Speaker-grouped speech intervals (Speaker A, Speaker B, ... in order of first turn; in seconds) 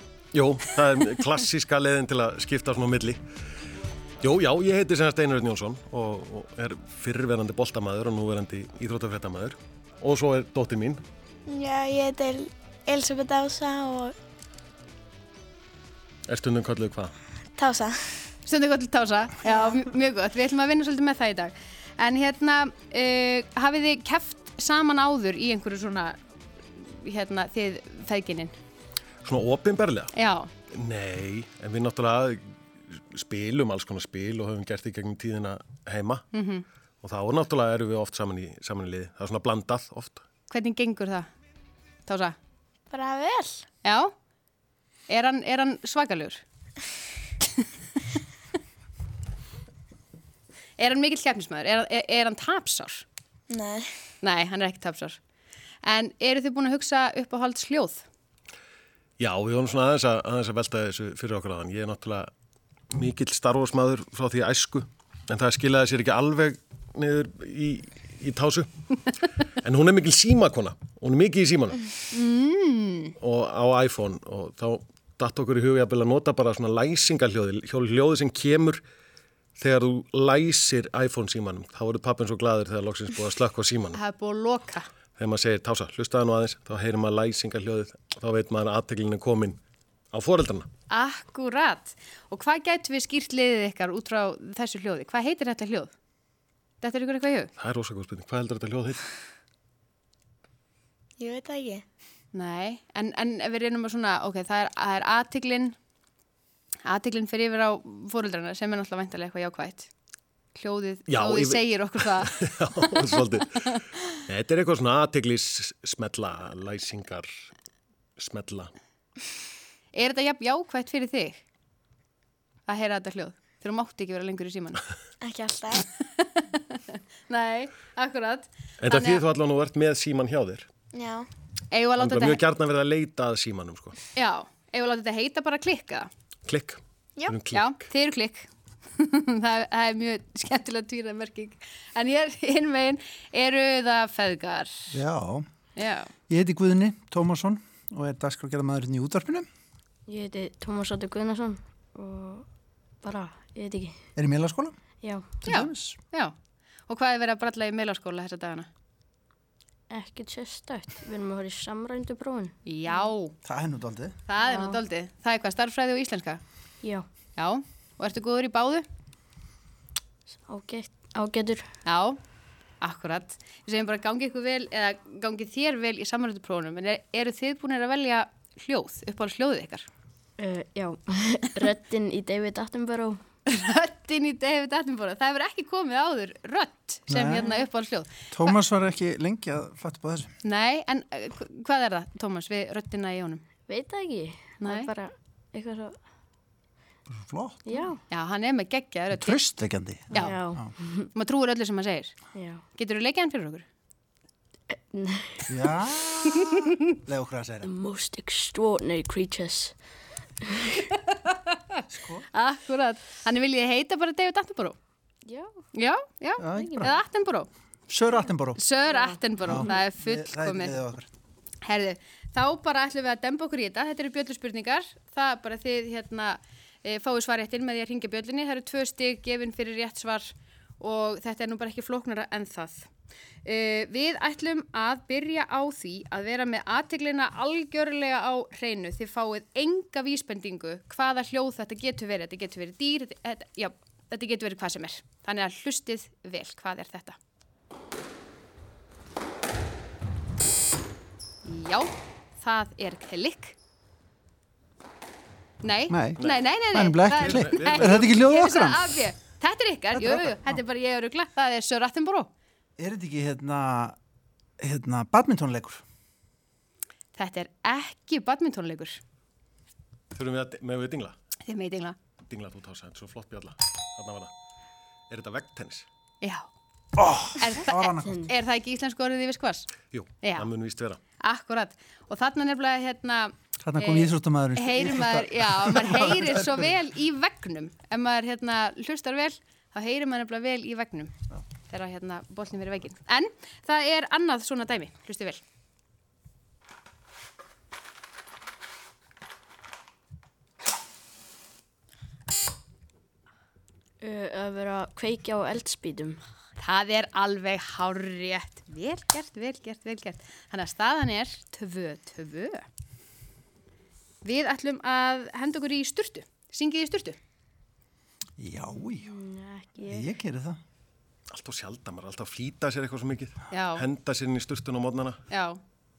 Speaker A: 0.3-3.2, 4.2-11.0, 16.3-17.1, 29.2-30.1, 30.7-36.2, 37.0-40.2, 59.2-62.3, 62.9-68.7, 69.6-71.8, 73.2-78.8, 79.6-84.0, 85.2-89.6, 90.1-90.7, 97.6-99.0, 111.1-117.3, 118.2-118.7, 128.8-130.7, 132.0-134.0, 136.5-137.8, 256.2-256.4, 257.1-258.2, 270.1-271.2, 272.3-274.3, 275.1-275.9, 279.9-281.0, 321.3-325.2
Speaker B: 11.5-14.2, 17.6-18.3, 19.4-19.8, 42.9-43.6, 53.5-53.9, 101.2-101.8, 125.2-125.9, 130.9-131.3
Speaker C: 18.4-26.2, 26.8-28.5, 30.1-30.5, 36.3-36.6, 40.5-41.3, 42.1-42.4, 43.8-44.1, 45.1-46.4, 50.8-53.0, 54.2-55.2, 55.8-58.0, 72.1-73.2, 83.9-84.9, 90.9-95.9, 96.8-97.5, 102.3-105.8, 106.9-109.9, 110.5-112.3, 112.9-113.2, 119.9-121.4, 122.7-124.8, 126.2-129.2, 131.7-132.4, 134.2-136.1, 137.5-138.5, 139.0-144.9, 145.8-146.1, 155.4-156.3, 156.9-158.7, 162.7-163.4, 164.3-166.4, 167.4-168.9, 171.9-172.2, 172.8-179.9, 183.5-188.6, 190.4-193.4, 194.6-194.9, 198.1-199.4, 200.1-200.4, 201.2-202.2, 202.8-203.7, 212.3-214.8, 215.8-217.5, 218.6-220.8, 221.7-232.9, 233.4-247.2, 251.4-253.6, 255.6-262.3, 267.2-269.0, 271.5-272.0, 276.2-276.5, 277.4-279.7, 280.2-280.5, 281.2-291.1, 291.7-295.4, 306.6-312.6, 314.2-317.2, 323.5-323.8, 325.3-325.6
Speaker D: 144.9-145.4, 146.3-149.5, 154.2-154.8, 155.4-156.0, 163.4-164.2, 187.1-187.7, 188.3-190.3, 197.1-197.6, 199.1-200.7, 205.5-207.7, 211.9-212.3, 216.4-217.0, 217.9-218.6, 219.4-221.1, 255.9-259.0, 259.9-260.6, 262.8-264.0, 264.6-265.8, 277.0-278.2, 283.6-286.7, 318.4-319.1, 319.9-320.6
Speaker E: 150.1-152.4, 153.0-154.0, 155.0-155.3, 159.9-163.1, 164.4-164.8, 170.5-171.7, 180.4-183.2, 193.7-196.0, 197.7-198.0, 200.2-201.1, 202.3-202.6, 204.9-205.6, 207.6-209.7, 210.5-210.8, 215.3-215.6, 216.5-216.9, 218.9-219.2, 304.0-306.2, 318.8-320.1